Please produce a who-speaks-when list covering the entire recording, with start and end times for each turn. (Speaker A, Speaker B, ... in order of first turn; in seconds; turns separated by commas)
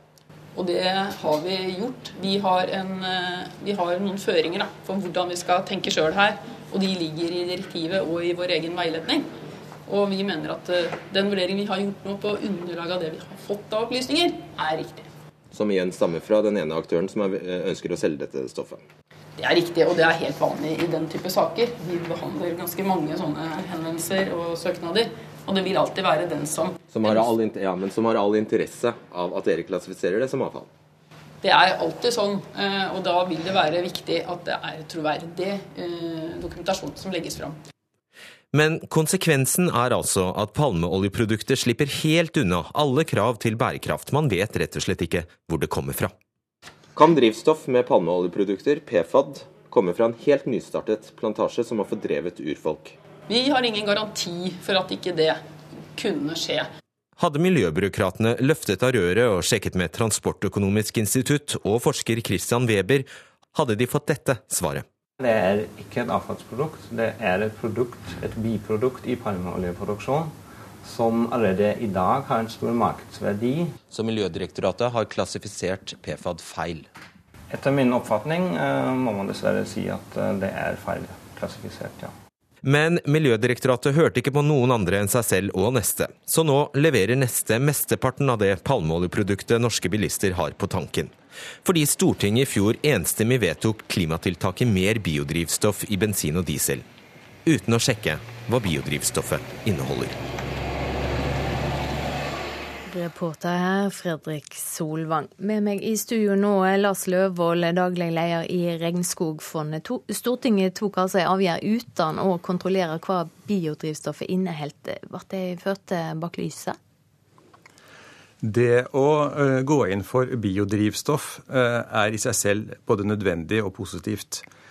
Speaker A: 0.6-9.3, Speaker A: 9.9-15.1, Speaker B: 15.5-18.8, Speaker A: 19.4-27.2, Speaker B: 26.9-30.7, Speaker A: 31.4-37.6, Speaker C: 38.5-46.1, Speaker B: 47.0-53.0, Speaker A: 53.3-55.4, Speaker A: 56.0-56.7, Speaker C: 57.2-64.8, Speaker D: 65.2-73.8, Speaker B: 73.9-76.9, Speaker D: 77.5-82.1, Speaker C: 82.6-96.8, Speaker C: 97.5-100.2, Speaker E: 102.9-116.8, Speaker F: 118.4-124.5